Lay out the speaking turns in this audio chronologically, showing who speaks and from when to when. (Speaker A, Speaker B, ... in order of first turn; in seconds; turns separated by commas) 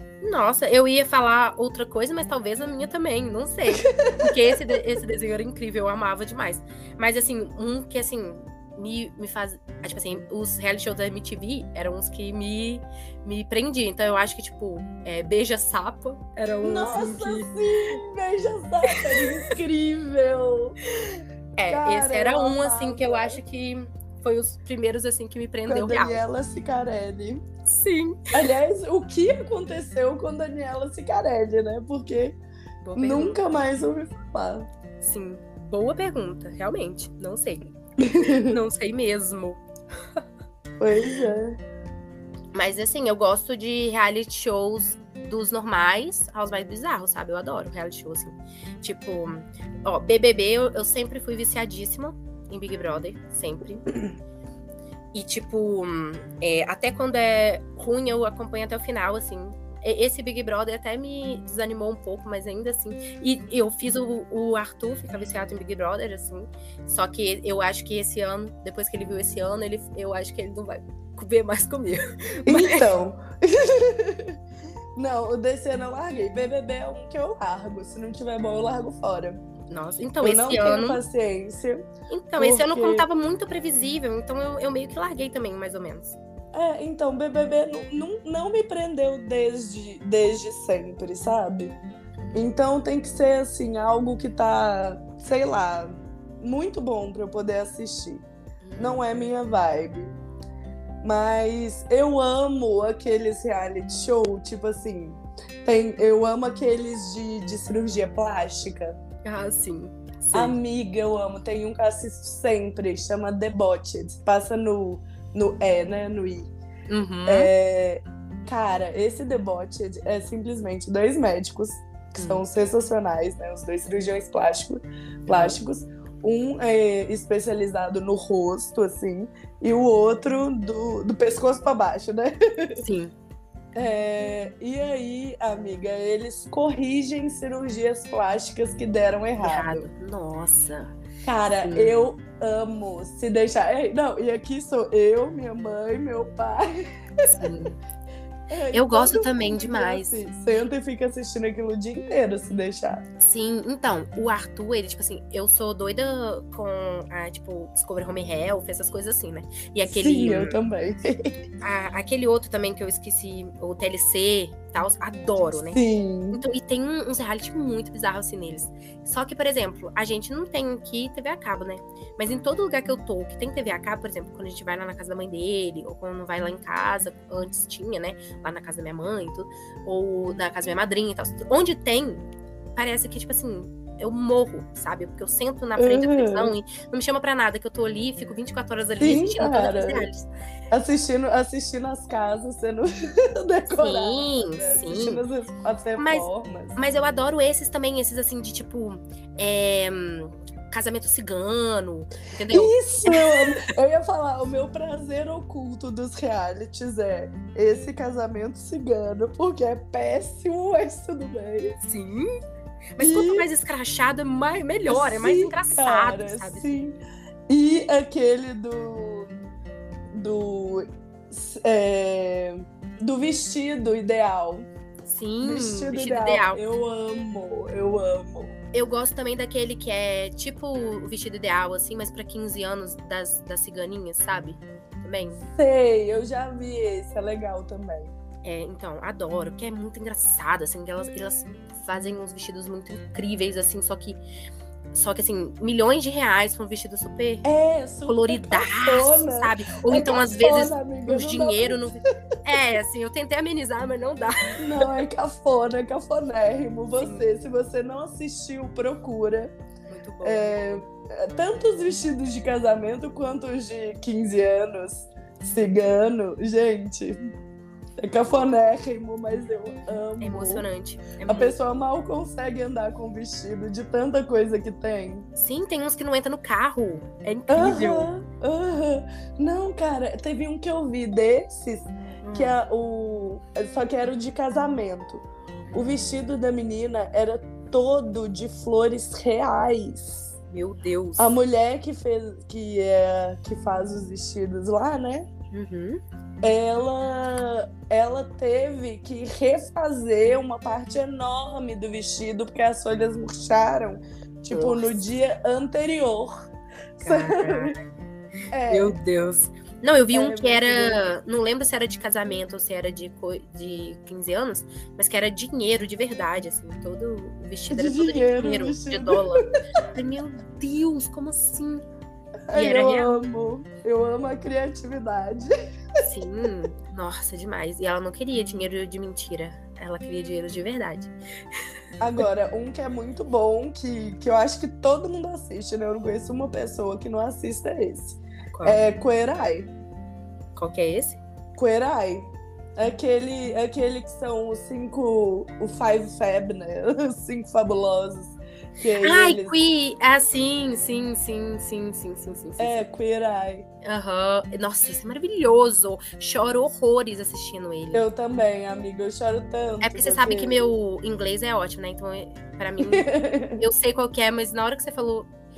Speaker A: 0.2-17.9, Speaker B: 3.8-4.6, Speaker B: 16.6-23.4, Speaker A: 18.9-19.4, Speaker A: 21.6-26.2, Speaker B: 25.7-27.4, Speaker A: 27.6-28.3, Speaker B: 28.3-32.4, Speaker A: 32.8-33.4, Speaker B: 33.0-34.7, Speaker A: 35.0-37.6, Speaker B: 38.0-38.6, Speaker A: 38.2-39.6, Speaker B: 40.8-41.6, Speaker A: 42.5-53.9, Speaker A: 55.1-72.9, Speaker B: 72.5-74.4, Speaker B: 75.0-79.4, Speaker A: 79.7-81.0, Speaker B: 80.2-81.9, Speaker A: 82.1-86.2, Speaker B: 82.4-83.0, Speaker B: 86.5-91.8, Speaker B: 92.3-98.2, Speaker A: 98.6-99.2, Speaker B: 98.8-100.1, Speaker B: 101.0-109.0, Speaker A: 109.2-110.5, Speaker B: 110.3-116.5, Speaker A: 116.9-117.5, Speaker B: 117.2-132.8, Speaker A: 122.1-122.4, Speaker A: 125.3-125.6, Speaker A: 132.8-133.1, Speaker B: 133.7-139.9, Speaker A: 139.4-140.9, Speaker B: 141.2-147.5, Speaker A: 141.6-141.9, Speaker A: 147.2-147.8, Speaker B: 148.5-153.0, Speaker A: 148.7-150.2, Speaker A: 153.2-160.6, Speaker B: 159.9-161.3, Speaker A: 161.6-165.8, Speaker B: 165.7-166.4, Speaker A: 166.3-182.2, Speaker A: 182.8-190.3, Speaker B: 185.8-186.5, Speaker B: 189.0-190.1, Speaker B: 190.7-196.8, Speaker A: 193.7-195.2, Speaker A: 196.0-203.5, Speaker B: 202.5-211.8, Speaker A: 211.8-212.3, Speaker A: 213.0-216.8, Speaker B: 213.0-213.5, Speaker B: 214.9-217.0, Speaker B: 217.5-219.3, Speaker B: 220.1-224.7, Speaker A: 225.0-226.6, Speaker B: 225.4-228.6, Speaker A: 228.7-235.4, Speaker B: 235.5-238.1, Speaker A: 238.4-244.2, Speaker A: 244.9-247.5, Speaker B: 247.4-251.9, Speaker A: 248.1-255.0, Speaker B: 254.6-259.5, Speaker A: 257.0-257.2, Speaker A: 259.9-260.8, Speaker B: 260.2-267.2, Speaker B: 268.0-270.6, Speaker A: 270.2-271.6, Speaker B: 271.2-275.3, Speaker A: 275.4-278.1, Speaker B: 277.5-290.3, Speaker A: 282.2-282.6, Speaker A: 290.5-291.4, Speaker B: 291.2-295.3, Speaker A: 295.5-296.0, Speaker B: 296.4-306.3, Speaker A: 304.5-305.0, Speaker B: 307.0-307.7, Speaker A: 307.0-307.8, Speaker B: 308.5-309.0, Speaker A: 308.7-321.8, Speaker B: 310.1-311.0, Speaker B: 317.7-319.4, Speaker B: 322.5-325.5, Speaker A: 322.5-323.2, Speaker A: 326.0-331.1, Speaker B: 332.0-339.7, Speaker A: 338.5-338.8, Speaker A: 340.6-341.2, Speaker B: 341.6-349.5, Speaker A: 349.0-352.8, Speaker B: 352.6-353.6, Speaker A: 353.8-358.1, Speaker B: 357.9-360.7, Speaker A: 359.8-365.3, Speaker B: 362.8-363.6